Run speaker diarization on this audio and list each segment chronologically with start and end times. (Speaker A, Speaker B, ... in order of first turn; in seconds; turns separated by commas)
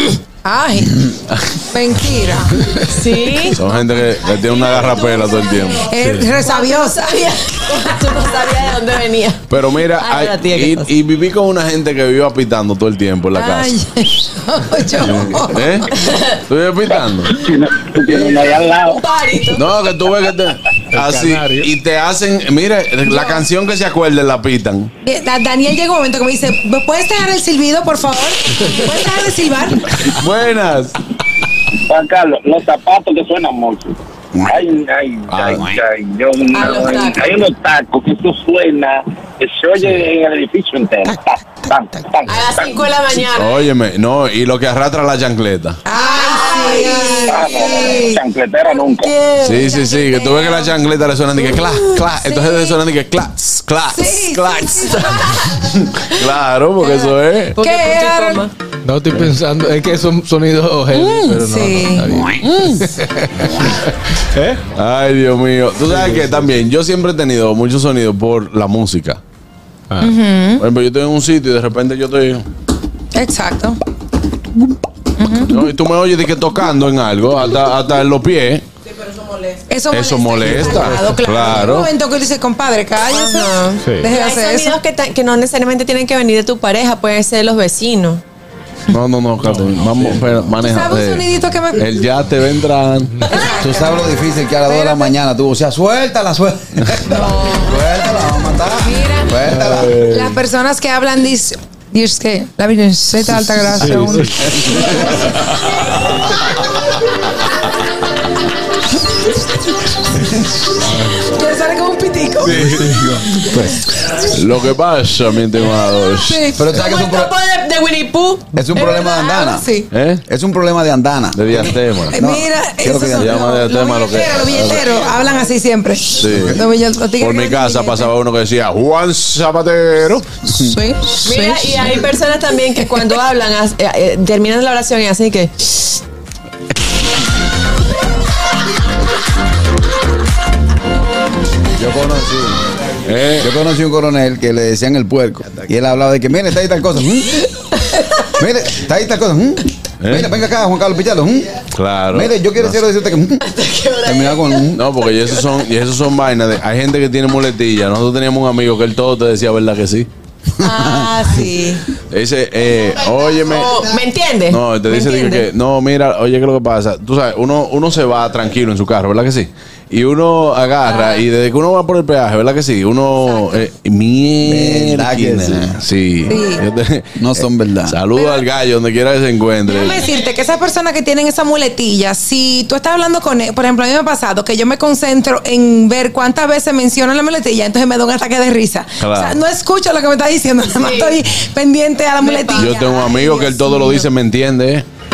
Speaker A: 0.4-2.6, Speaker B: 2.8-3.6, Speaker C: 3.5-5.9, Speaker B: 4.6-9.5, Speaker A: 5.7-7.1, Speaker C: 9.5-13.7, Speaker B: 10.0-10.9, Speaker A: 13.3-15.8, Speaker C: 15.0-17.3, Speaker B: 15.9-16.4, Speaker D: 17.3-19.0, Speaker B: 18.1-19.7, Speaker C: 19.5-24.9, Speaker E: 20.9-21.7, Speaker A: 23.0-23.4, Speaker A: 25.0-29.9, Speaker C: 30.2-30.9, Speaker D: 31.8-42.9, Speaker F: 34.3-34.6, Speaker C: 35.3-35.8, Speaker B: 36.5-37.3, Speaker B: 42.2-43.6, Speaker C: 43.3-45.8, Speaker A: 45.8-48.2, Speaker B: 46.0-48.1, Speaker D: 47.2-49.1, Speaker B: 48.7-49.8, Speaker C: 49.4-57.6, Speaker A: 49.7-50.8, Speaker B: 51.4-52.8, Speaker A: 53.9-55.6, Speaker B: 56.8-58.5, Speaker A: 57.6-58.4, Speaker E: 58.8-63.3, Speaker A: 60.9-62.2, Speaker C: 62.4-62.9, Speaker E: 64.3-64.7, Speaker C: 64.7-69.2, Speaker E: 65.9-66.3, Speaker E: 69.9-70.1, Speaker A: 70.0-70.6, Speaker C: 70.6-72.4, Speaker A: 73.1-73.8, Speaker A: 75.2-75.5, Speaker C: 75.5-78.6, Speaker A: 79.7-84.8, Speaker C: 79.9-81.9, Speaker B: 83.1-88.2, Speaker E: 83.8-84.1, Speaker C: 88.9-93.3, Speaker E: 89.4-90.2, Speaker A: 90.6-92.0, Speaker A: 93.2-95.1, Speaker F: 93.5-100.0, Speaker A: 97.1-97.8, Speaker A: 98.8-99.4, Speaker C: 99.4-100.4, Speaker A: 100.0-105.2, Speaker E: 103.8-104.2, Speaker A: 111.2-112.6, Speaker C: 112.4-113.0, Speaker F: 112.5-113.2, Speaker E: 112.6-113.0, Speaker C: 114.1-116.5, Speaker F: 116.5-117.3, Speaker B: 116.6-119.0, Speaker F: 118.5-119.7, Speaker A: 118.9-119.9, Speaker C: 119.9-120.2, Speaker F: 120.2-123.4, Speaker C: 121.3-122.2, Speaker A: 122.1-128.1, Speaker C: 123.1-125.0, Speaker C: 126.2-126.6, Speaker C: 127.2-130.2, Speaker A: 130.5-131.9, Speaker B: 131.2-136.0, Speaker F: 141.8-142.6, Speaker C: 143.0-143.5, Speaker F: 143.4-147.4, Speaker F: 148.2-153.4, Speaker C: 150.0-150.3, Speaker C: 151.7-152.9, Speaker B: 153.4-155.5, Speaker F: 154.0-154.8, Speaker C: 154.2-160.1, Speaker F: 160.6-161.4, Speaker A: 160.6-161.7, Speaker C: 162.1-163.9, Speaker B: 163.4-165.5, Speaker C: 164.5-180.1, Speaker B: 170.8-171.2, Speaker F: 174.4-175.8, Speaker A: 176.2-176.6, Speaker F: 177.2-177.9, Speaker A: 178.1-178.5, Speaker A: 179.7-194.0, Speaker C: 189.0-189.4, Speaker B: 190.8-191.2, Speaker B: 192.2-192.8, Speaker C: 192.6-194.8